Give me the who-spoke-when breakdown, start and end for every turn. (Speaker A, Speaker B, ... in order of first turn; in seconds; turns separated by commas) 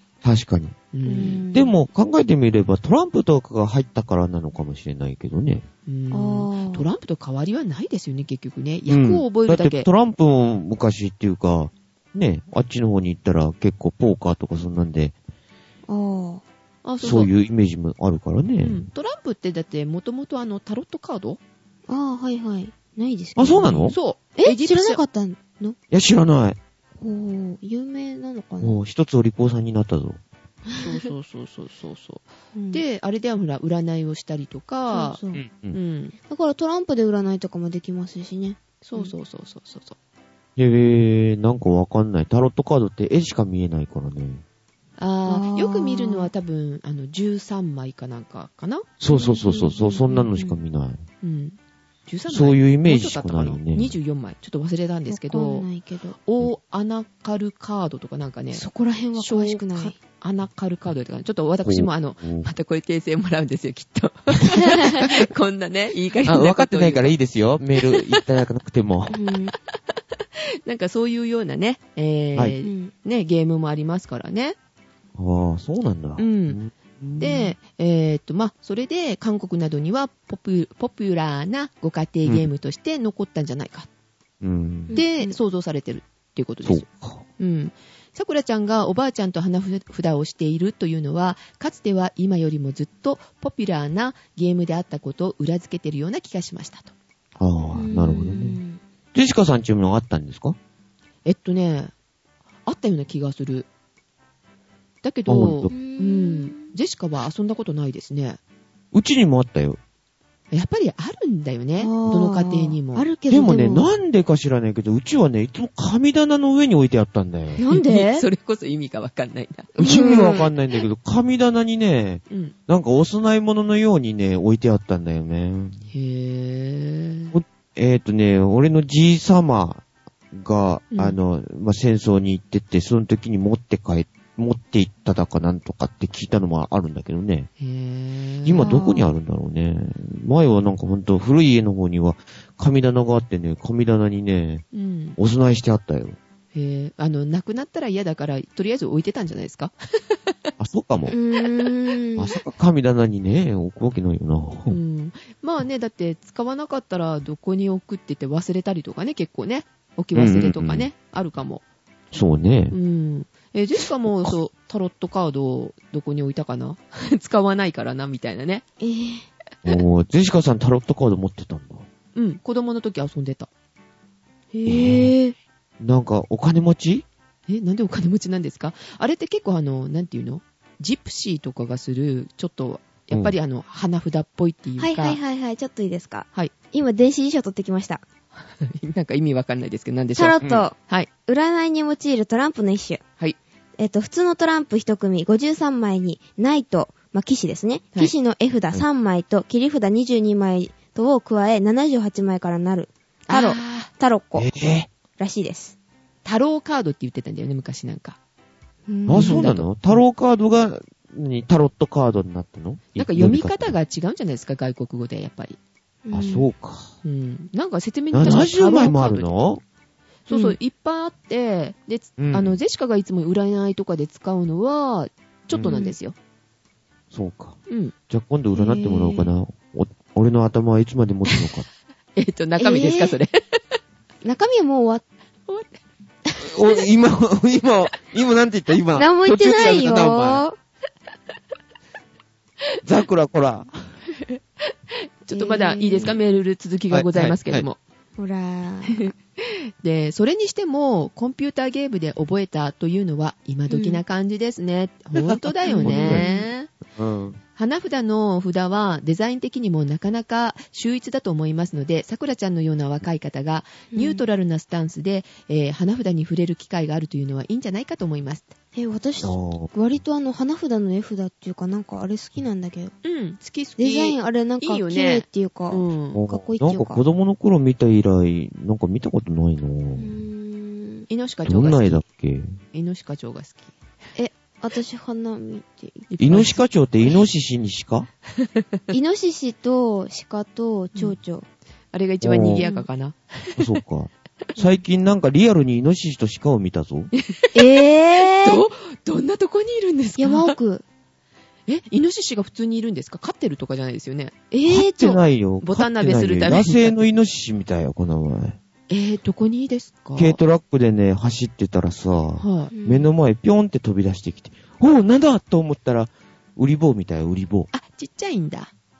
Speaker A: 0.2-0.8, Speaker B: 0.9-1.4, Speaker C: 1.0-1.7, Speaker A: 1.5-5.6, Speaker B: 5.8-9.9, Speaker C: 6.1-6.8, Speaker A: 8.9-15.1, Speaker C: 15.9-16.4, Speaker B: 16.8-17.3, Speaker A: 17.0-18.9, Speaker B: 18.6-21.4, Speaker C: 21.9-25.8, Speaker A: 23.4-23.9, Speaker B: 23.9-25.0, Speaker A: 25.9-26.6, Speaker C: 27.0-28.8, Speaker A: 28.6-30.2, Speaker C: 30.7-31.0, Speaker B: 30.8-35.2, Speaker C: 32.5-32.8, Speaker C: 34.9-35.4, Speaker A: 35.3-35.8, Speaker B: 35.7-36.1, Speaker C: 36.3-39.1, Speaker B: 38.8-40.0, Speaker A: 40.6-44.4, Speaker B: 45.0-48.9, Speaker C: 45.2-46.3, Speaker A: 49.0-51.0, Speaker C: 49.1-50.6, Speaker B: 51.2-55.7, Speaker A: 52.3-53.9, Speaker C: 55.1-56.2, Speaker B: 56.2-67.1, Speaker C: 58.5-59.9, Speaker A: 61.6-62.5, Speaker C: 64.5-65.0, Speaker A: 66.2-69.2, Speaker B: 67.9-68.2, Speaker C: 69.1-69.5, Speaker B: 70.4-74.5, Speaker C: 72.6-72.9, Speaker A: 75.2-77.3, Speaker B: 76.2-76.6, Speaker B: 77.2-83.9, Speaker A: 84.4-85.0, Speaker C: 84.9-85.3, Speaker B: 84.9-86.9, Speaker A: 86.6-87.2, Speaker B: 87.4-96.9, Speaker A: 97.4-98.6, Speaker C: 97.7-98.8, Speaker A: 99.1-100.6, Speaker B: 101.2-101.9, Speaker B: 102.7-103.7, Speaker B: 105.0-108.4, Speaker A: 105.3-105.7, Speaker C: 105.7-106.7, Speaker A: 108.9-109.8, Speaker B: 110.5-113.1, Speaker C: 111.8-113.9, Speaker A: 113.3-117.6, Speaker C: 117.6-118.2, Speaker B: 117.7-120.4, Speaker A: 119.8-125.8, Speaker C: 119.8-120.5, Speaker B: 122.3-122.5, Speaker B: 125.9-127.3, Speaker A: 127.3-137.5, Speaker B: 130.9-131.2, Speaker B: 137.6-138.9, Speaker A: 138.4-144.6, Speaker C: 138.6-139.1, Speaker B: 144.7-145.2, Speaker A: 145.2-146.2, Speaker B: 146.5-150.2, Speaker A: 150.6-151.1, Speaker C: 151.1-152.3, Speaker A: 152.2-154.8, Speaker B: 154.7-161.6, Speaker A: 160.1-160.9, Speaker A: 162.1-162.7, Speaker B: 162.7-168.6, Speaker C: 168.8-169.2, Speaker A: 169.6-171.8, Speaker B: 172.1-173.5, Speaker C: 174.5-175.3, Speaker A: 174.7-175.1, Speaker A: 175.8-177.0, Speaker B: 177.5-185.2, Speaker C: 184.8-188.0, Speaker B: 188.6-191.1, Speaker C: 190.1-193.0, Speaker A: 190.4-190.7, Speaker C: 193.8-204.5, Speaker B: 203.3-203.9, Speaker A: 204.4-204.9, Speaker C: 205.2-205.7, Speaker B: 206.2-208.2, Speaker C: 208.9-209.5, Speaker A: 209.1-213.8, Speaker B: 209.1-210.0, Speaker B: 212.9-215.6, Speaker C: 216.1-216.5, Speaker A: 216.1-216.9, Speaker B: 217.0-219.3, Speaker A: 218.1-219.6, Speaker B: 220.3-226.1, Speaker C: 220.3-220.6, Speaker A: 222.2-222.5, Speaker C: 225.7-225.9, Speaker A: 227.1-231.7, Speaker B: 227.7-227.9, Speaker C: 228.5-229.3, Speaker B: 232.2-233.4, Speaker C: 232.6-233.2, Speaker C: 234.2-235.0, Speaker A: 236.4-240.4, Speaker C: 238.9-240.6, Speaker A: 242.8-243.7, Speaker B: 244.9-247.8, Speaker C: 245.3-246.1, Speaker A: 246.9-247.6, Speaker C: 248.2-249.1, Speaker B: 248.9-256.7, Speaker C: 253.7-254.0, Speaker A: 255.2-256.2, Speaker C: 255.6-256.5, Speaker A: 256.9-257.4, Speaker B: 257.6-268.5, Speaker C: 263.9-264.2, Speaker C: 268.7-272.9, Speaker A: 269.2-269.7, Speaker B: 273.0-276.2, Speaker C: 273.8-277.0, Speaker A: 276.1-280.1, Speaker C: 279.9-281.1, Speaker B: 281.1-282.0, Speaker A: 281.4-282.6, Speaker B: 282.7-283.7, Speaker C: 284.1-286.1, Speaker B: 286.1-286.6, Speaker A: 286.2-288.1, Speaker C: 288.9-291.4, Speaker B: 291.9-293.7, Speaker A: 292.2-292.6, Speaker C: 292.6-292.9, Speaker A: 293.6-297.1, Speaker B: 297.2-300.5, Speaker C: 297.5-298.6, Speaker C: 300.2-300.8, Speaker B: 301.7-304.4, Speaker C: 304.5-305.2, Speaker A: 304.6-308.6, Speaker B: 305.6-307.1, Speaker B: 308.9-310.4, Speaker A: 310.1-317.7, Speaker B: 312.4-312.7, Speaker C: 312.7-313.1, Speaker B: 317.7-318.7